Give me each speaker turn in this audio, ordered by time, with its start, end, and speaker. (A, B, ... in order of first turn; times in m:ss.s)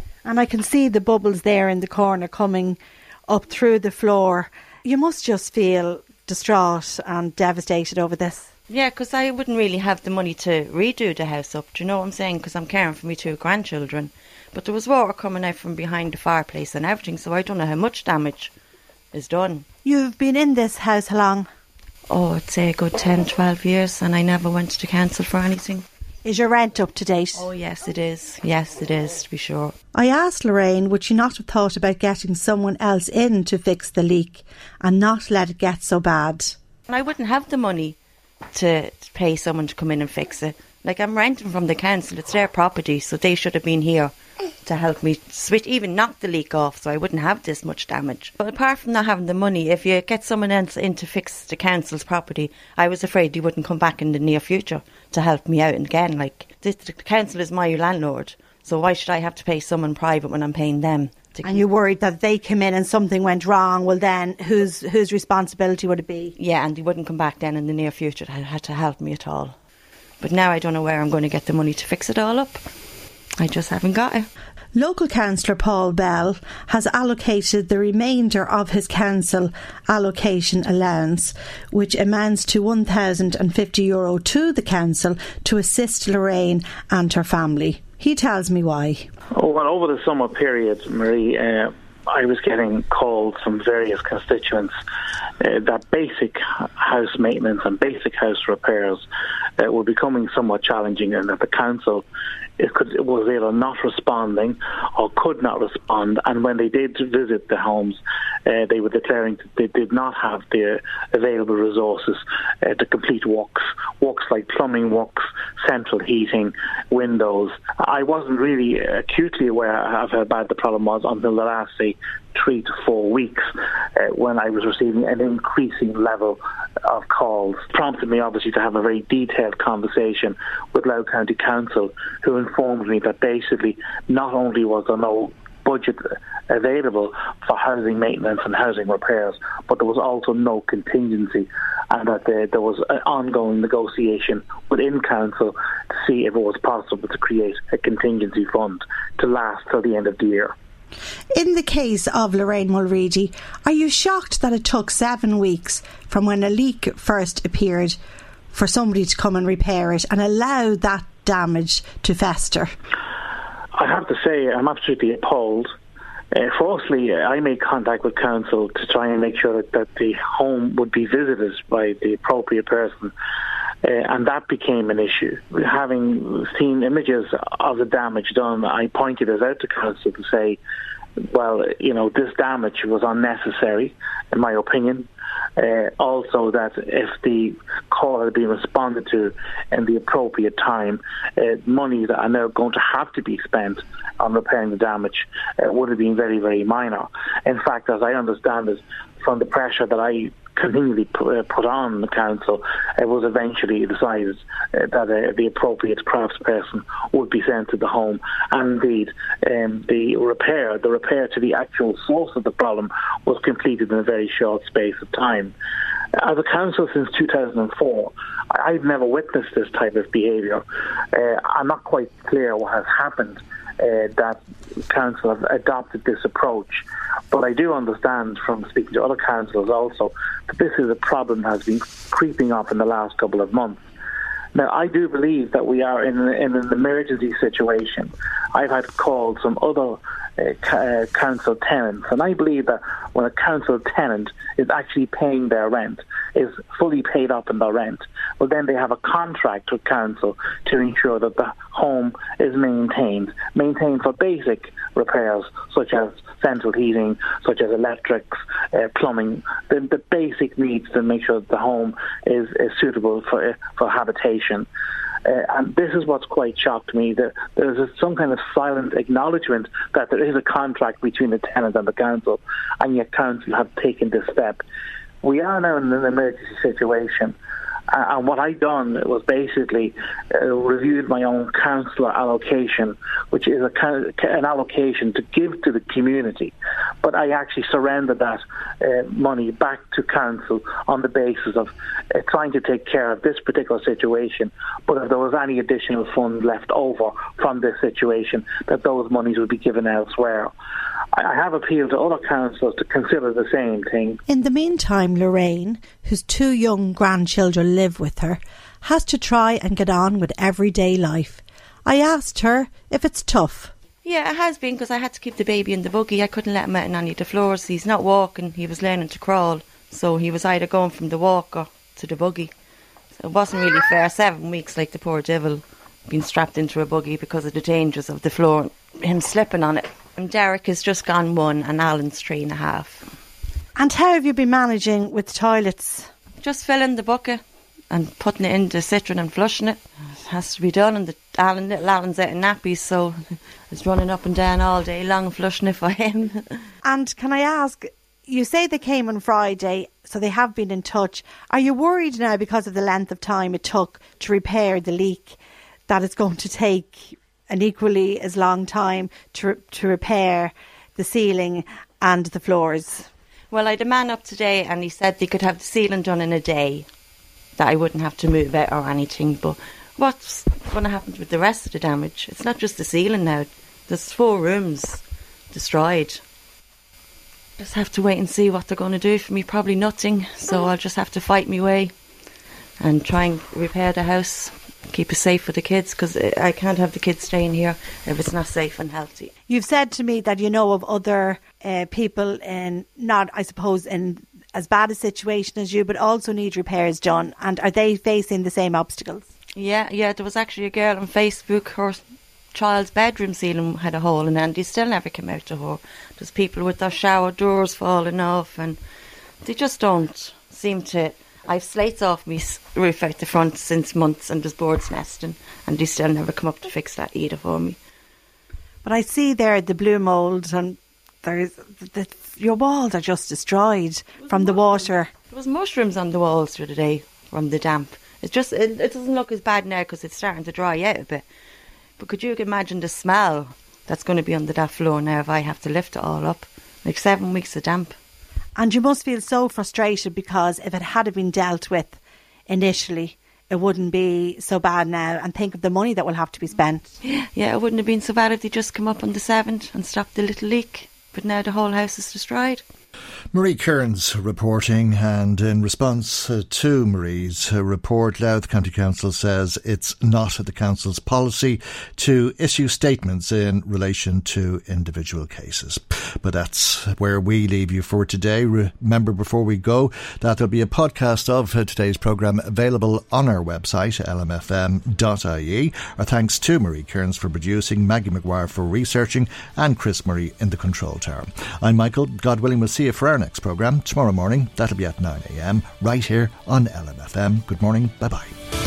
0:00.2-0:08.5 A
0:08.7-0:18.5 B
0:19.1-0:19.6 B
0:19.8-0:21.5 A
0:22.1-0:25.9 B
0:26.2-0:27.4 A
0:27.4-0:29.7 B
0:30.0-0:36.6 A
0:36.9-0:38.0 B
0:38.5-0:44.1 B
0:44.6-1:01.6 B
1:01.4-1:06.3 A
1:06.4-1:09.6 B
1:10.2-1:12.6 B
1:13.4-1:14.3 B
1:14.8-1:29.1 A
1:29.4-1:34.7 C
1:35.4-1:39.0 C
1:39.6-1:42.0 C
1:42.6-2:30.5 C
2:31.4-2:38.0 A
2:38.5-2:42.7 A
2:43.8-2:45.7 C
2:46.3-2:53.1 C
2:53.8-3:00.6 C
3:01.3-3:05.1 C
3:05.6-3:35.5 C
3:36.2-3:53.8 C
3:54.6-4:24.7 C
4:25.3-4:34.6 C
4:35.2-4:37.4 C
4:37.9-5:00.5 C
5:01.2-5:04.2 C
5:04.3-5:13.7 A
5:14.0-5:22.5 B
5:23.2-5:33.1 B
5:33.8-5:36.1 A
5:36.4-5:46.5 B
5:46.8-6:03.1 A
6:03.5-6:06.9 B
6:07.6-6:16.2 B
6:17.6-6:21.9 B
6:22.8-6:29.3 B
6:29.5-6:39.3 A
6:39.6-6:42.0 B
6:42.5-6:48.8 B
6:49.4-6:57.8 B
6:58.8-7:05.1 A
7:04.3-7:11.2 B
7:12.0-7:18.0 B
7:18.6-7:26.9 A
7:27.0-7:32.6 B
7:33.3-8:08.3 D